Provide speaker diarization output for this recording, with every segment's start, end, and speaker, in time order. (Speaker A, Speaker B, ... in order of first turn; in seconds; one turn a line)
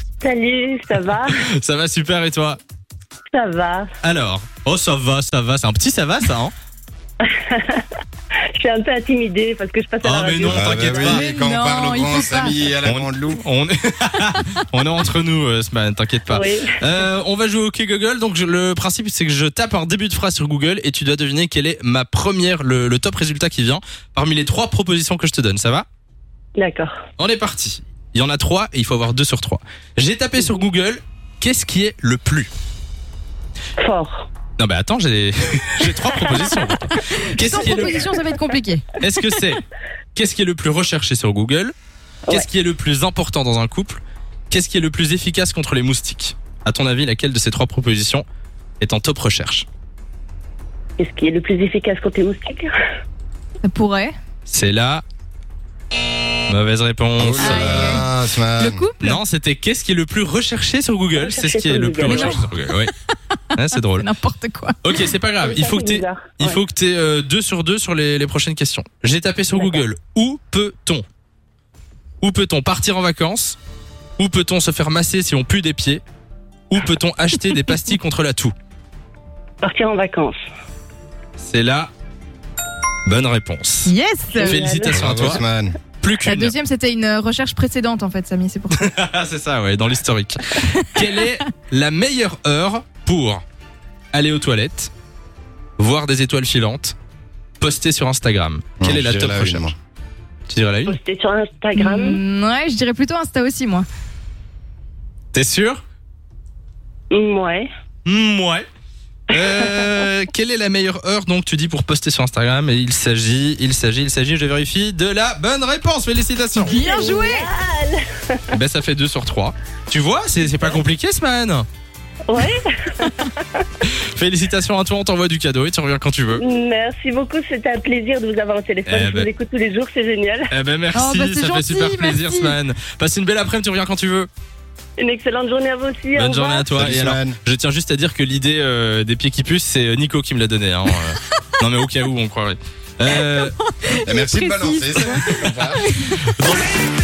Speaker A: 0.2-1.3
Speaker B: 1.2-2.6
Speaker A: 3.3-3.9
Speaker B: 4.0-6.5
Speaker A: 7.2-7.8
Speaker A: 8.6-11.0
Speaker B: 10.0-11.3
Speaker C: 10.4-13.4
Speaker D: 11.0-12.6
Speaker B: 12.8-25.9
Speaker A: 16.3-16.8
Speaker A: 26.6-26.9
Speaker B: 27.2-32.5
Speaker A: 33.8-34.3
Speaker B: 34.6-38.0
Speaker D: 37.0-39.4
Speaker B: 39.0-39.6
Speaker B: 40.1-41.7
Speaker B: 42.3-48.2
Speaker B: 48.8-49.6
Speaker A: 51.0-52.7
Speaker D: 53.6-54.1
Speaker B: 54.5-55.0
Speaker B: 56.5-58.0
Speaker C: 57.2-58.9
Speaker D: 57.4-59.2
Speaker B: 59.0-62.9
Speaker A: 61.2-62.4
Speaker D: 62.0-62.4
Speaker B: 63.5-64.1
Speaker D: 63.9-64.8
Speaker B: 64.8-71.0
Speaker A: 65.4-66.6
Speaker A: 69.5-69.8
Speaker B: 72.2-73.6
Speaker B: 74.2-76.0
Speaker B: 76.7-78.5
Speaker A: 79.6-80.3
Speaker B: 81.4-81.9
Speaker B: 83.0-85.4
Speaker D: 83.8-84.6
Speaker A: 84.3-85.4
Speaker C: 84.9-85.7
Speaker B: 86.0-86.5
Speaker D: 86.2-88.8
Speaker B: 88.7-93.4
Speaker B: 94.1-94.9
Speaker B: 95.8-96.9
Speaker B: 97.6-99.7
Speaker C: 98.8-99.7
Speaker B: 100.5-101.0
Speaker A: 100.8-102.2
Speaker D: 101.8-103.8
Speaker B: 105.3-105.8
Speaker A: 107.1-107.7
Speaker B: 108.0-108.7
Speaker B: 109.3-116.8
Speaker A: 109.4-109.9
Speaker D: 116.5-117.5
Speaker A: 116.7-118.4
Speaker B: 118.5-121.7
Speaker A: 122.3-123.7
Speaker B: 123.8-126.4
Speaker A: 126.3-130.5
Speaker B: 128.8-129.3
Speaker B: 130.5-134.3
Speaker D: 130.9-132.6
Speaker A: 135.0-136.7
Speaker B: 136.1-143.6
Speaker C: 136.7-137.4
Speaker D: 143.7-146.2
Speaker C: 144.0-145.8
Speaker B: 145.0-146.7